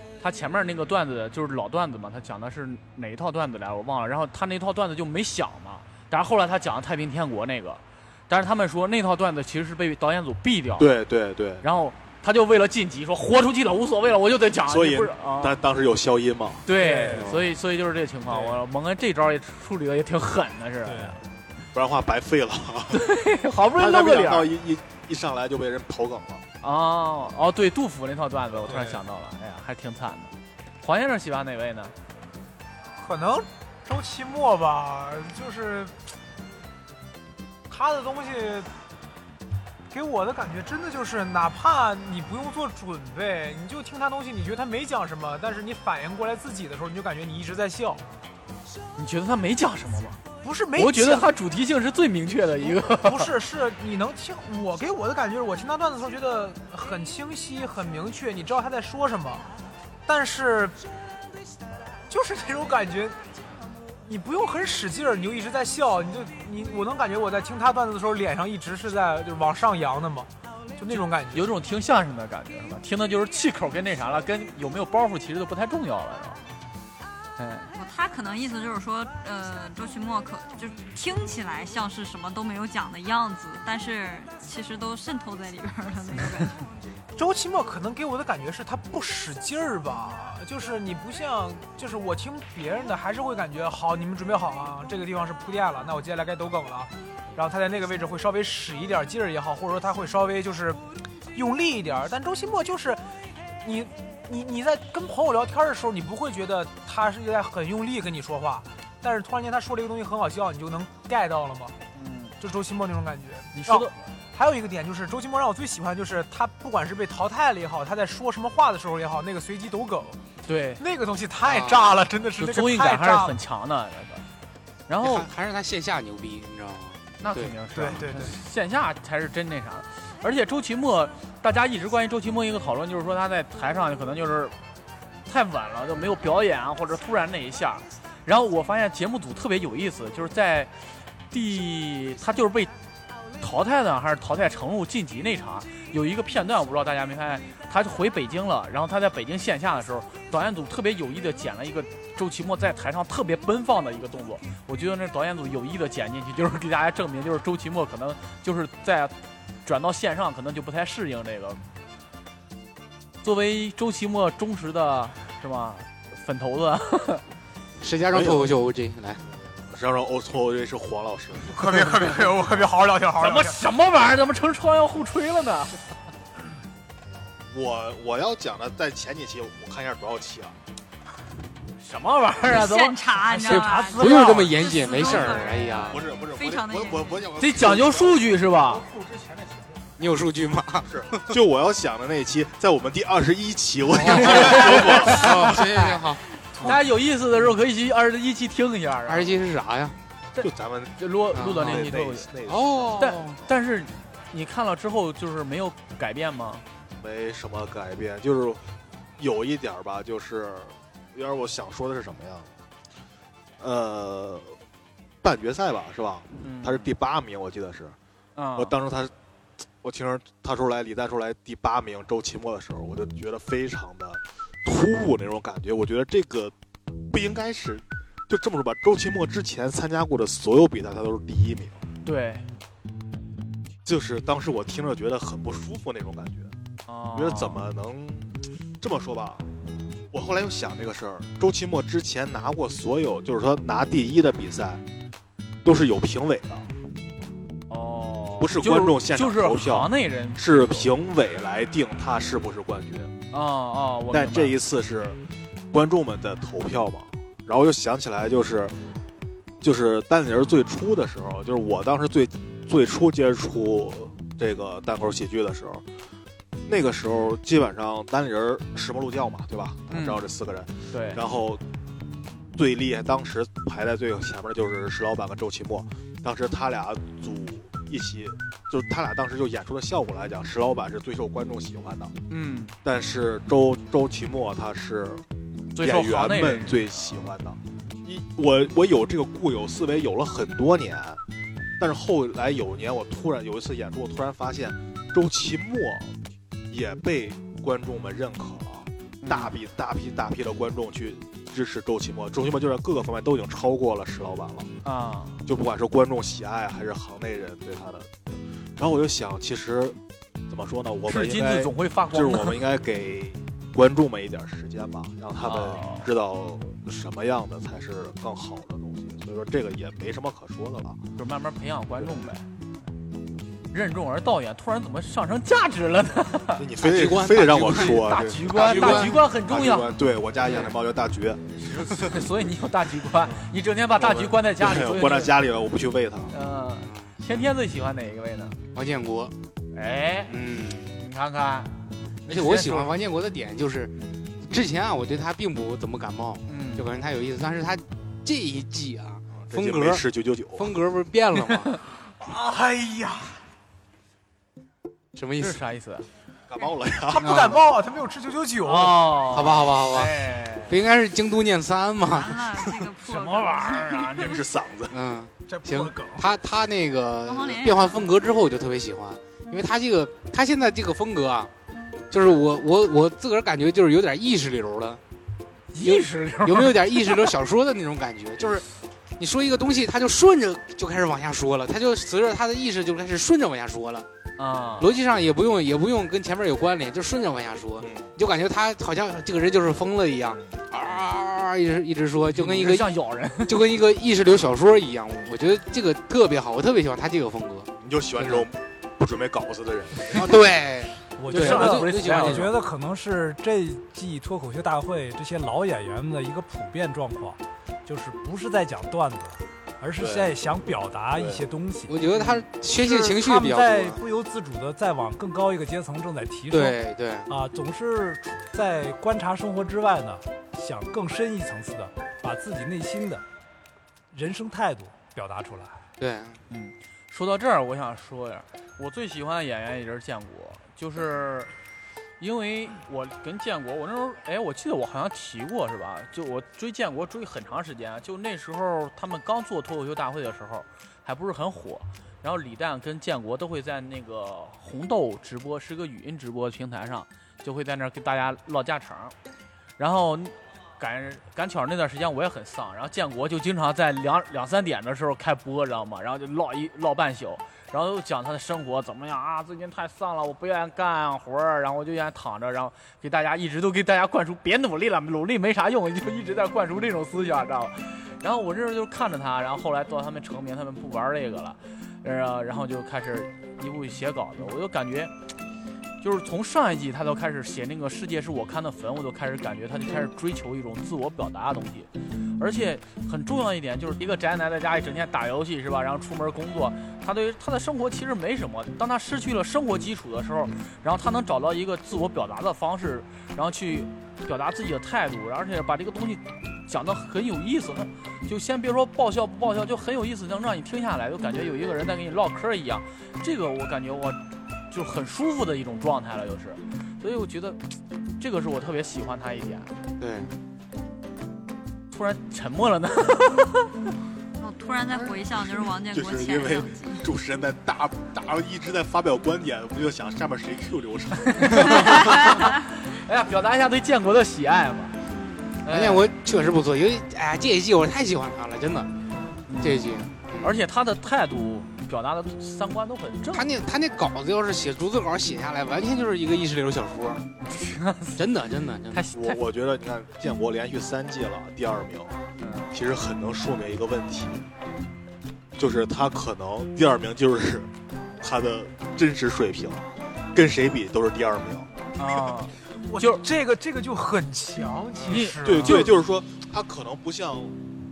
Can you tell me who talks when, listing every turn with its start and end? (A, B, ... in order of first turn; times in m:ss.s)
0:00.2-0:10.9 A
0:10.8-0:11.7 B
0:11.6-0:15.6 A
0:14.6-0:16.7 B
0:16.6-0:21.2 A
0:16.8-0:17.4 C
0:17.1-0:17.5 D
0:20.8-0:21.2 C
0:21.7-0:23.1 B
0:22.9-0:24.5 A
0:23.7-0:26.4 B
0:26.6-0:31.9 A
0:28.6-0:29.0 C
0:33.0-0:36.0 E
0:37.7-0:38.7 E
0:39.9-0:48.0 E
0:49.0-0:50.2 A
0:50.4-0:51.3 E
0:50.8-0:53.3 A
0:52.6-0:59.5 E
1:00.1-1:00.8 E
1:02.1-1:03.3 E
1:04.0-1:11.5 E
1:10.9-1:16.4 A
1:17.4-1:17.7 A
1:17.8-1:26.6 F
1:27.2-1:40.8 E
1:41.3-1:43.0 E
1:43.6-1:51.8 E
1:52.0-1:52.4 A
1:52.4-2:00.2 E
1:53.5-1:53.9 A
2:00.5-2:00.8 A
2:00.8-2:03.4 E
2:01.4-2:01.9 D
2:02.4-2:04.3 A
2:04.9-2:05.3 A
2:05.0-2:07.6 D
2:07.2-2:14.6 A
2:07.8-2:08.4 E
2:15.3-2:20.7 A
2:21.3-2:22.7 A
2:23.4-2:41.6 A
2:43.2-2:47.2 A
2:47.8-2:49.2 D
2:48.1-2:48.6 B
2:49.6-2:51.9 B
2:51.5-2:53.6 E
2:53.2-2:55.8 A
2:57.5-3:00.6 B
3:01.8-3:05.4 A
3:02.5-3:07.3 F
3:03.4-3:06.0 D
3:05.1-3:08.3 B
3:07.4-3:08.9 A
3:10.0-3:11.4 D
3:10.8-3:15.7 B
3:14.0-3:16.8 D
3:14.1-3:15.4 A
3:16.6-3:19.4 A
3:19.1-3:20.0 D
3:20.3-3:22.3 A
3:20.4-3:23.0 B
3:21.4-3:21.9 D
3:22.5-3:23.4 D
3:23.0-3:26.6 A
3:27.0-3:28.7 B
3:29.2-3:32.5 B
3:33.6-3:34.6 B
3:35.2-3:38.0 B
3:36.4-3:36.9 A
3:38.4-3:38.8 A
3:38.6-3:39.1 B
3:39.8-3:46.5 B
3:47.1-3:51.8 B
3:52.0-3:52.5 A
3:53.8-3:56.5 B
3:56.9-3:57.6 A
3:57.1-3:58.3 B
3:58.8-3:59.5 B
4:00.1-4:04.8 B
4:05.6-4:06.7 B
4:07.7-4:10.9 A
4:08.4-4:13.1 B
4:13.3-4:14.6 A
4:14.1-4:15.2 B
4:15.7-4:18.8 B
4:19.6-4:25.8 B
4:26.6-4:31.6 B
4:29.9-4:30.2 A
4:30.9-4:31.2 A
4:32.5-4:42.2 B
4:42.3-4:42.8 A
4:42.8-4:45.2 B
4:45.8-4:47.2 A
4:45.8-4:51.2 B
4:51.8-4:56.2 B
4:56.7-5:04.7 B
4:59.2-4:59.6 A
5:04.8-5:05.4 A
5:05.5-5:10.0 B
5:10.5-5:21.0 B
5:11.1-5:12.6 A
5:15.4-5:16.1 A
5:21.2-5:22.4 A
5:22.0-5:22.3 B
5:23.7-5:26.6 A
5:26.2-5:32.2 B
5:26.8-5:29.3 D
5:27.7-5:30.0 A
5:30.5-5:30.7 D
5:31.6-5:35.4 A
5:34.4-5:36.3 B
5:36.3-5:38.6 A
5:36.8-5:37.2 D
5:38.7-5:39.3 D
5:39.8-5:40.4 A
5:40.3-5:41.0 D
5:40.9-5:41.7 A
5:42.2-5:42.9 A
5:42.3-5:51.8 D
5:46.5-5:46.9 A
5:49.3-5:50.7 B
5:51.4-5:51.7 A
5:52.2-5:53.4 E
5:55.2-5:55.6 D
5:55.4-5:56.1 A
5:56.5-5:57.5 B
5:57.1-5:59.2 E
5:57.2-5:57.6 D
5:58.6-6:00.8 A
5:59.3-6:02.6 D
6:02.1-6:04.4 F
6:03.0-6:04.4 A
6:04.2-6:05.0 B
6:04.9-6:11.5 D
6:05.5-6:06.3 E
6:07.3-6:08.0 F
6:12.1-6:15.0 D
6:15.7-6:17.3 A
6:15.8-6:18.6 D
6:19.2-6:24.1 D
6:24.4-6:24.9 A
6:24.8-6:38.5 D
6:27.8-6:28.1 B
6:32.3-6:33.6 A
6:37.8-6:40.4 B
6:40.1-6:42.6 D
6:41.2-7:03.2 C
6:41.3-6:42.5 A
6:50.0-6:50.4 B
6:51.1-6:51.4 B
6:51.9-6:54.0 D
6:56.5-6:57.3 D
7:04.1-7:05.8 C
7:06.0-7:06.4 D
7:06.5-7:11.5 A
7:12.2-7:29.2 A
7:29.8-7:55.1 A
7:56.0-8:27.6 A
8:28.2-8:30.3 A
8:30.0-8:30.3 D
8:31.9-8:33.8 A
8:34.4-8:37.1 F
8:34.9-8:42.5 B
8:41.4-8:45.0 A
8:45.6-8:46.1 A
8:45.7-8:48.9 D
8:49.5-8:53.6 A
8:49.6-8:50.6 D
8:53.3-8:57.2 D
8:57.4-8:58.3 A
8:58.2-8:59.1 D
8:58.9-8:59.4 A
8:59.1-9:02.2 B
9:02.4-9:02.7 A
9:02.7-9:04.5 B
9:05.6-9:11.7 B
9:12.0-9:13.2 A
9:12.8-9:15.9 E
9:15.1-9:15.9 A
9:15.4-9:17.6 B